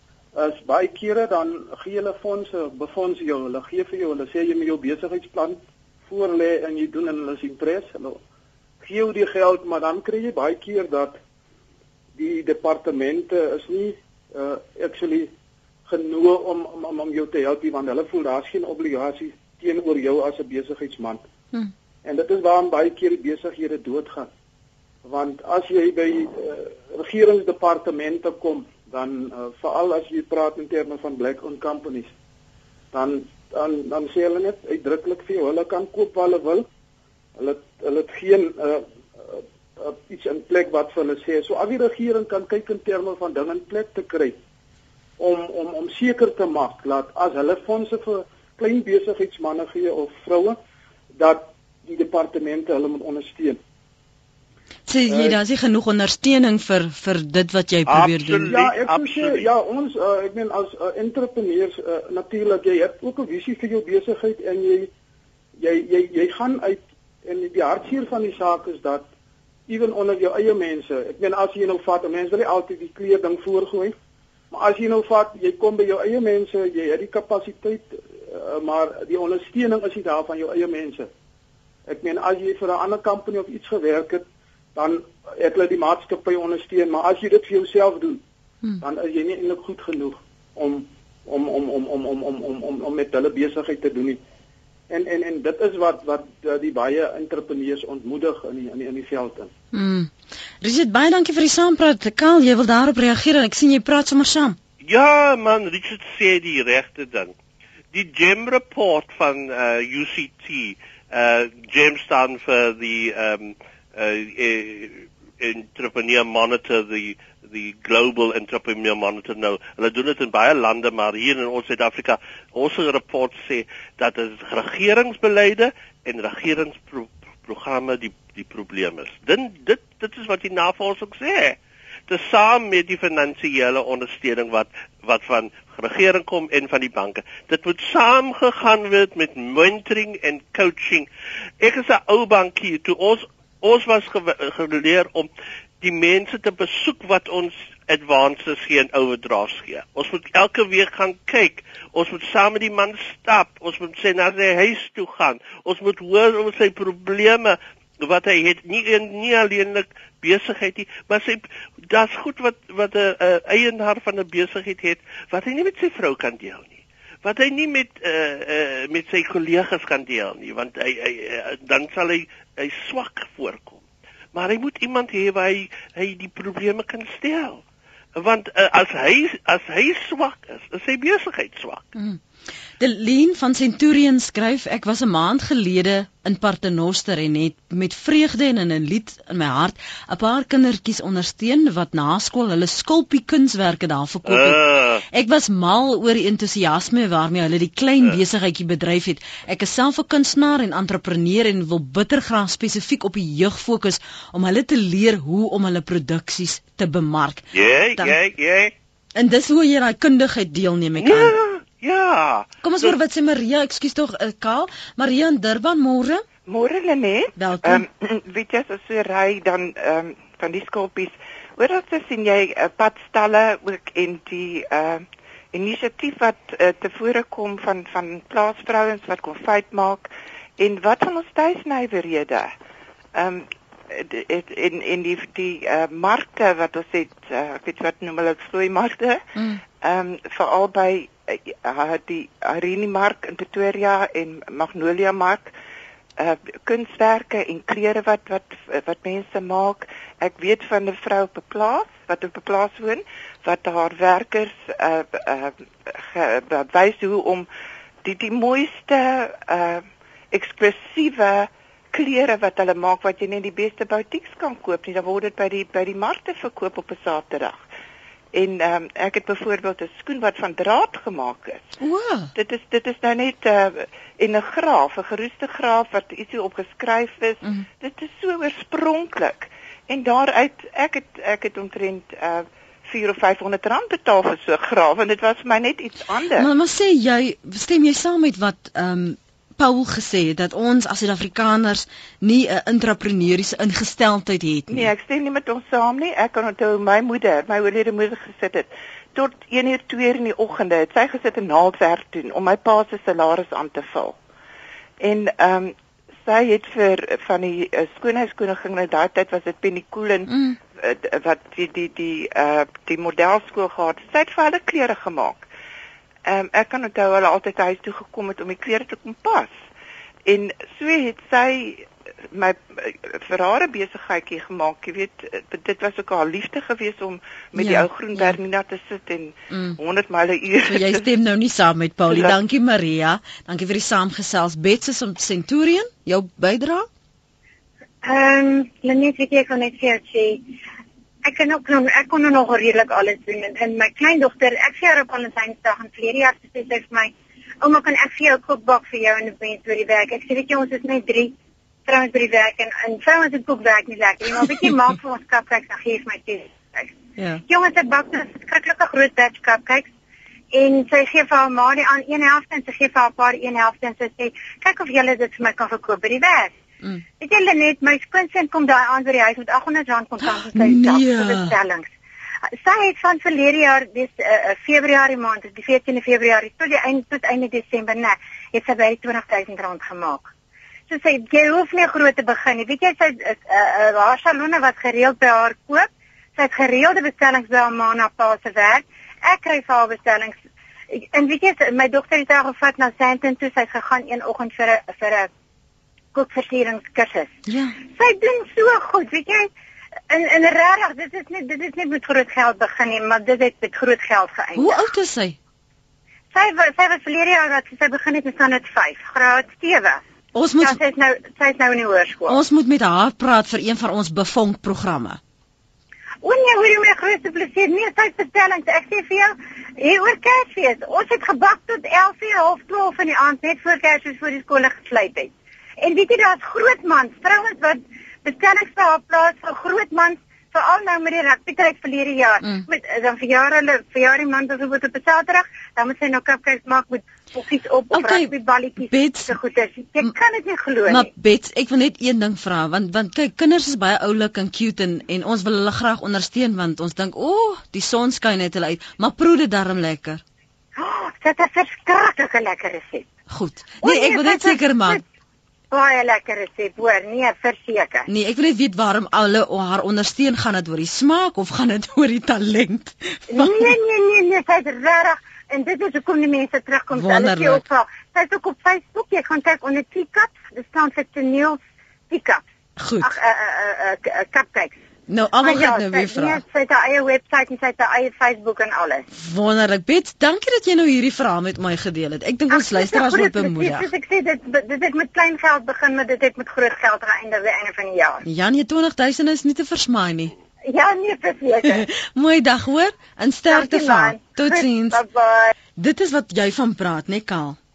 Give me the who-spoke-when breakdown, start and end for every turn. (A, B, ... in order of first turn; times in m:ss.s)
0:00.3-0:08.2 A
0:08.8-0:11.2 A
0:12.2-0:15.3 A
0:15.9-0:21.2 A
0:22.0-0:24.3 A
0:25.0-0:32.1 A
0:32.9-0:36.7 A
0:37.4-0:44.4 A
0:45.2-0:50.6 A
0:51.1-0:53.6 A
0:54.9-0:58.5 B
0:55.1-0:55.4 A
0:57.9-0:59.5 C
0:58.5-1:04.9 A
1:05.6-1:09.0 A
1:09.7-1:13.9 A
1:14.5-1:21.1 A
1:21.9-1:28.2 A
1:28.8-1:34.2 A
1:34.9-1:39.5 A
1:39.7-1:40.1 B
1:40.6-1:44.6 B
1:44.8-1:47.3 C
1:47.9-2:11.6 C
2:12.1-2:21.1 C
2:21.6-2:25.3 C
2:25.8-2:53.8 C
2:54.3-2:57.6 C
2:58.2-3:01.9 C
3:02.8-3:27.4 B
3:14.2-3:15.0 C
3:27.5-3:28.7 C
3:29.1-3:31.4 B
3:31.0-3:32.9 C
3:32.6-3:36.2 B
3:36.5-3:52.5 D
3:37.4-3:37.8 B
3:53.1-3:59.2 D
3:59.4-3:59.6 B
3:59.8-4:05.5 D
4:06.2-4:17.5 D
4:18.0-4:27.6 D
4:28.3-4:31.7 D
4:31.8-4:32.3 B
4:32.3-4:46.5 D
4:46.4-4:54.9 B
4:54.7-5:04.2 D
5:05.0-5:05.7 D
5:06.2-5:15.5 D
5:10.3-5:10.6 B
5:16.2-5:19.6 D
5:20.2-5:31.0 D
5:27.6-5:28.4 B
5:29.5-5:29.8 B
5:30.6-5:36.9 B
5:38.0-5:40.4 E
5:41.2-5:51.3 E
5:51.9-5:56.9 E
5:57.2-5:57.4 B
5:57.5-5:59.9 E
6:00.5-6:06.5 E
6:07.2-6:11.9 E
6:10.2-6:11.6 B
6:12.6-6:20.3 E
6:20.9-6:30.4 E
6:30.9-6:35.3 E
6:36.1-6:37.3 E
6:37.5-6:37.8 B
6:37.9-6:39.5 E
6:40.1-6:44.8 E
6:44.5-6:45.4 B
6:46.3-6:50.0 E
6:50.3-6:50.8 B
6:50.6-6:52.4 E
6:52.3-6:55.2 B
6:56.2-7:05.3 E
7:05.8-7:21.1 E
7:17.9-7:19.4 B
7:20.8-7:30.2 B
7:30.8-7:33.1 E
7:33.3-7:35.0 B
7:33.8-7:35.0 E
7:35.7-7:38.1 E
7:38.1-7:43.7 B
7:43.3-7:51.6 E
7:46.9-7:47.6 B
7:52.1-7:52.4 E
7:52.8-7:53.1 B
7:53.0-7:54.8 E
7:55.1-7:56.4 B
7:55.4-7:59.0 E
7:59.1-8:03.9 B
8:02.5-8:08.2 E
8:08.2-8:10.3 B
8:10.7-8:11.8 E
8:11.6-8:15.0 B
8:13.5-8:15.5 E
8:15.8-8:17.6 B